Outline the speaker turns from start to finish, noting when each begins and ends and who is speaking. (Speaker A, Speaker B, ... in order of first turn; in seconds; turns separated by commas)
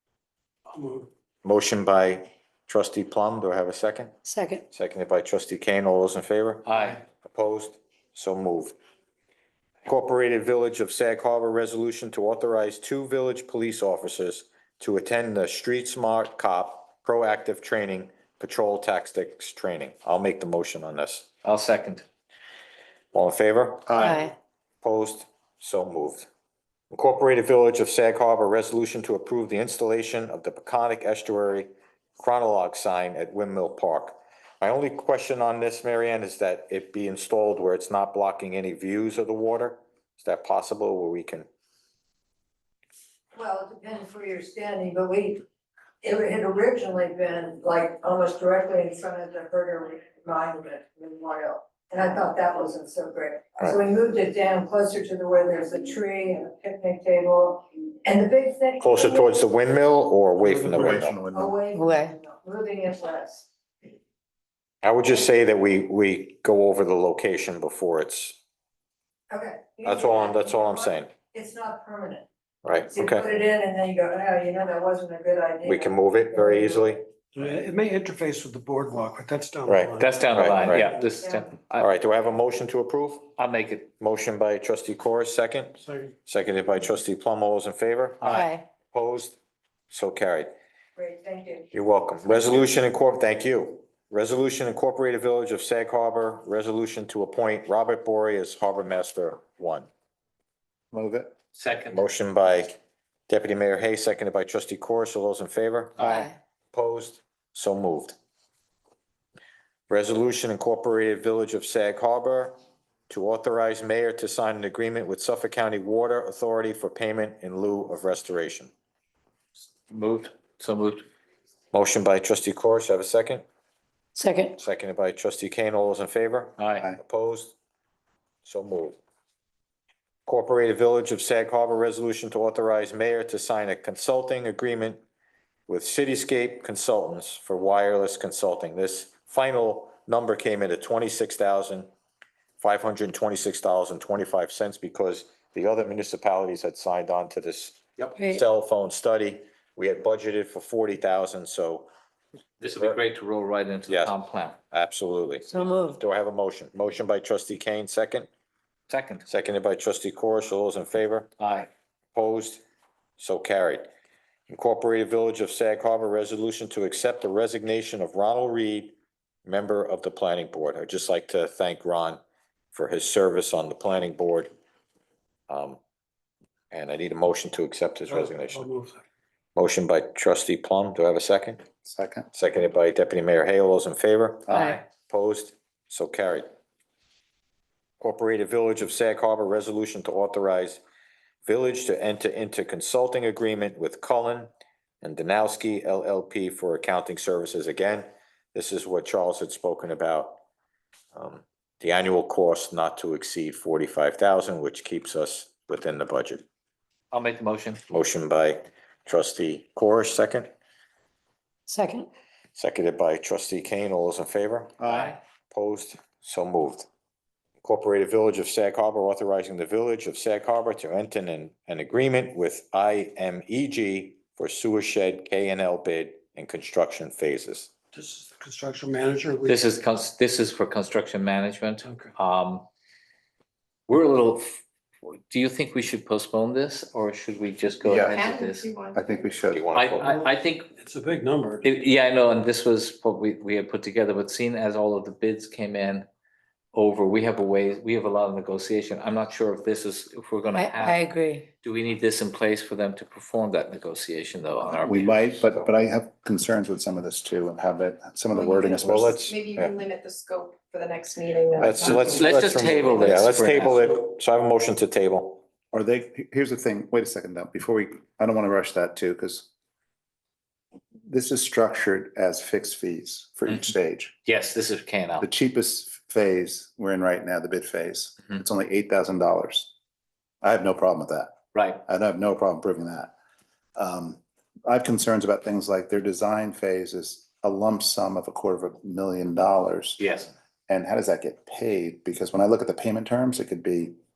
Speaker A: 0.7-1.1, Speaker B: 1.4-4.1, Speaker C: 4.2-4.6, Speaker B: 4.7-8.7, Speaker D: 6.7-7.0, Speaker B: 9.9-21.3, Speaker D: 21.4-22.0, Speaker B: 23.1-24.3, Speaker E: 23.9-24.2, Speaker C: 23.9-24.3, Speaker B: 24.8-26.3, Speaker B: 26.9-41.5, Speaker F: 43.3-45.4, Speaker F: 46.0-59.4, Speaker B: 58.8-61.2, Speaker E: 60.4-61.5, Speaker F: 61.3-63.5, Speaker C: 61.7-62.1, Speaker B: 64.8-68.4, Speaker F: 69.3-72.3, Speaker B: 69.8-71.1, Speaker B: 72.6-73.3, Speaker F: 72.9-76.9, Speaker B: 75.6-77.0, Speaker A: 77.3-81.0, Speaker B: 79.7-80.9, Speaker D: 80.0-81.9, Speaker F: 81.2-81.5, Speaker B: 81.8-83.3, Speaker D: 83.4-83.9, Speaker B: 84.0-89.4, Speaker A: 85.8-86.1, Speaker D: 88.2-88.5, Speaker C: 88.2-88.6, Speaker B: 89.9-90.5, Speaker F: 91.0-91.7, Speaker B: 91.7-99.9, Speaker E: 100.9-101.3, Speaker D: 101.5-102.0, Speaker B: 101.9-102.8, Speaker B: 103.3-108.2, Speaker C: 106.0-106.3, Speaker B: 109.9-112.6, Speaker B: 113.1-118.7, Speaker D: 119.9-121.1, Speaker B: 121.7-123.4, Speaker C: 124.2-124.6, Speaker B: 124.6-127.6, Speaker D: 126.6-126.9, Speaker B: 128.4-129.0, Speaker B: 130.2-135.0, Speaker B: 135.7-141.9, Speaker B: 142.6-151.9, Speaker C: 148.2-148.4, Speaker D: 152.6-154.6, Speaker B: 153.9-154.2, Speaker B: 154.7-158.3, Speaker C: 155.4-156.0, Speaker D: 158.9-159.3, Speaker B: 159.3-161.3, Speaker D: 161.4-161.7, Speaker B: 162.2-162.6, Speaker B: 163.2-163.9, Speaker B: 164.5-172.2, Speaker B: 172.7-174.5, Speaker B: 175.5-175.8, Speaker B: 176.7-178.7, Speaker A: 178.1-179.0, Speaker B: 179.6-181.6, Speaker E: 181.8-182.3, Speaker B: 182.3-186.5, Speaker C: 184.5-184.8, Speaker B: 188.0-190.8, Speaker B: 191.5-194.5, Speaker B: 195.0-200.4, Speaker B: 201.1-206.4, Speaker D: 207.1-207.8, Speaker B: 207.9-210.5, Speaker C: 211.7-212.1, Speaker B: 212.6-214.9, Speaker E: 214.8-215.2, Speaker D: 214.8-215.2, Speaker B: 215.5-216.8, Speaker B: 217.6-227.7, Speaker A: 227.9-229.6, Speaker D: 229.4-232.7, Speaker D: 233.9-238.7, Speaker E: 237.8-238.2, Speaker G: 238.2-239.3, Speaker E: 238.9-239.7, Speaker B: 239.5-240.1, Speaker D: 239.7-240.7, Speaker A: 240.8-241.7, Speaker D: 241.6-246.1, Speaker D: 246.7-251.1, Speaker C: 250.5-251.5, Speaker D: 251.6-255.6, Speaker E: 254.7-259.2, Speaker G: 258.3-262.3, Speaker B: 258.8-259.8, Speaker B: 261.6-265.4, Speaker D: 261.9-263.9, Speaker E: 265.7-269.5, Speaker E: 271.1-274.1, Speaker D: 274.2-275.3, Speaker E: 275.2-279.7, Speaker E: 280.4-283.1, Speaker D: 281.5-281.8, Speaker E: 283.8-290.0, Speaker D: 290.0-290.3, Speaker E: 290.7-293.9